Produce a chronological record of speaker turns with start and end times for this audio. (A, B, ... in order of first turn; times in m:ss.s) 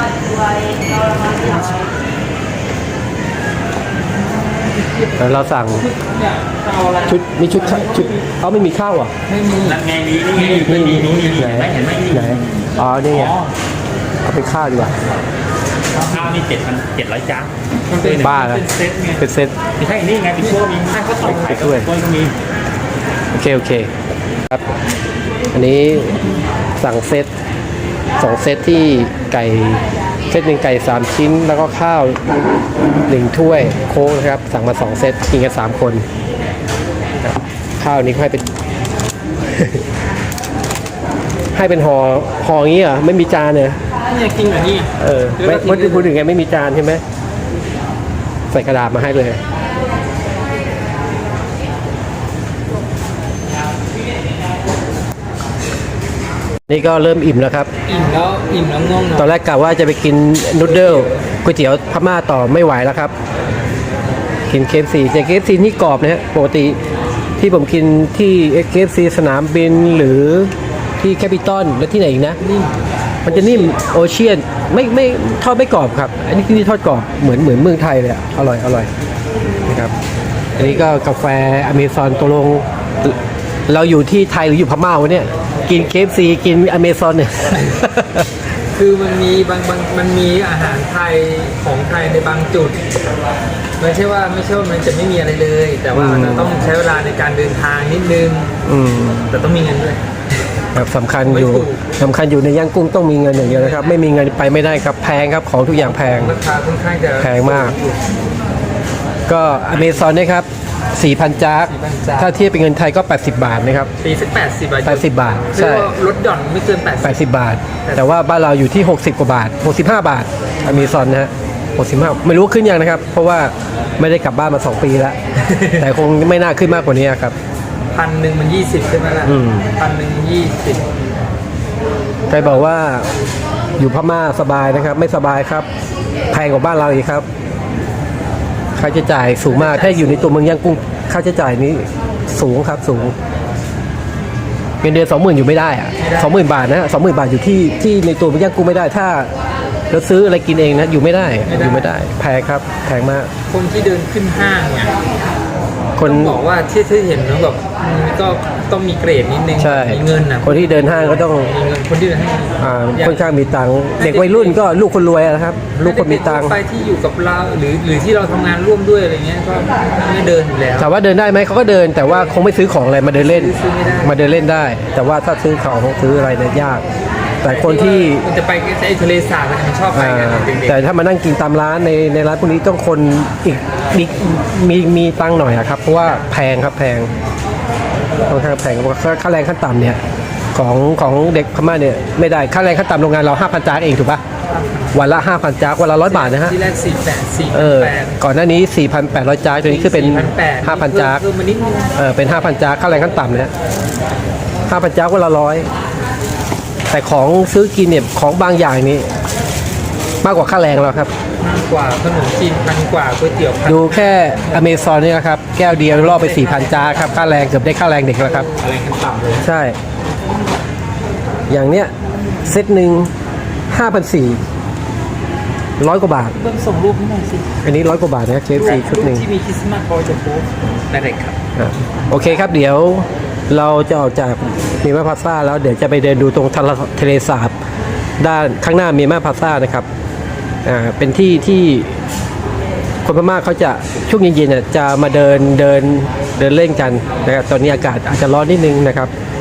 0:01.1-0:01.9 A
0:04.3-0:08.2 A
0:05.2-0:05.9 B
0:07.1-0:09.1 B
0:09.3-0:09.8 A
0:09.6-0:13.5 C
0:10.3-0:10.7 A
0:10.6-0:13.4 B
0:14.2-0:14.9 B
0:16.0-0:16.3 A
0:16.0-0:18.4 C
0:17.9-0:19.2 A
0:18.1-0:18.7 B
0:19.2-0:19.6 B
0:19.8-0:22.4 C
0:21.2-0:21.9 B
0:23.3-0:23.9 B
0:25.5-0:26.2 B
0:26.8-0:27.3 B
0:28.2-0:32.2 B
0:33.1-0:36.0 B
0:37.2-0:38.5 B
0:39.5-0:39.8 B
0:41.6-0:43.8 B
0:44.0-0:46.1 A
0:45.0-0:47.0 B
0:48.5-0:49.4 B
0:56.7-0:57.7 B
0:57.9-0:59.3 A
0:59.2-1:03.1 B
1:00.9-1:01.2 A
1:04.5-1:06.8 B
1:07.4-1:12.4 B
1:12.4-1:12.8 A
1:13.2-1:18.9 B
1:19.6-1:19.9 B
1:20.6-1:23.2 B
1:23.7-1:28.3 B
1:28.8-1:32.8 A
1:33.8-1:38.5 A
1:35.9-1:36.6 B
1:38.6-1:39.3 B
1:39.3-1:40.0 A
1:40.7-1:46.4 B
1:41.2-1:41.8 A
1:43.4-1:44.0 A
1:45.8-1:48.0 A
1:47.2-1:47.8 B
1:49.3-1:53.9 B
1:51.6-1:52.3 A
1:54.0-1:57.2 A
1:54.8-1:55.9 B
1:57.0-2:05.2 B
1:57.8-1:58.2 A
2:00.7-2:01.0 A
2:05.4-2:05.8 A
2:05.8-2:07.4 B
2:07.9-2:10.8 A
2:09.3-2:09.7 B
2:12.3-2:13.1 B
2:13.8-2:15.7 B
2:16.3-2:17.2 B
2:18.8-2:23.2 B
2:19.4-2:20.4 A
2:24.8-2:29.3 B
2:26.0-2:26.4 A
2:29.9-2:33.3 B
2:31.4-2:31.9 A
2:33.5-2:34.9 A
2:36.0-2:36.4 B
2:36.0-2:43.4 A
2:39.6-2:41.5 B
2:42.6-2:46.6 B
2:44.0-2:44.6 A
2:45.7-2:50.9 A
2:50.8-2:56.8 B
2:53.1-2:54.2 A
2:57.4-2:58.3 B
2:57.4-3:00.9 A
2:59.9-3:07.1 B
3:08.3-3:10.0 B
3:10.5-3:14.2 B
3:14.5-3:15.0 A
3:14.9-3:16.6 B
3:16.0-3:18.2 A
3:17.5-3:21.2 B
3:19.6-3:21.9 A
3:22.0-3:23.5 B
3:24.7-3:25.7 B
3:26.9-3:29.1 B
3:30.2-3:31.1 B
3:31.4-3:34.6 A
3:33.7-3:38.5 B
3:35.7-3:37.3 A
3:38.2-3:38.8 A
3:38.6-3:39.4 C
3:39.4-3:39.8 B
3:41.5-3:41.9 B
3:42.4-3:43.1 B
3:43.7-3:44.4 B
3:45.8-3:46.4 B
3:46.3-3:47.5 A
3:47.6-3:49.3 B
3:48.5-3:51.4 A
3:51.6-3:57.5 B
3:58.2-3:59.9 B
4:00.6-4:02.0 B
4:03.0-4:09.1 B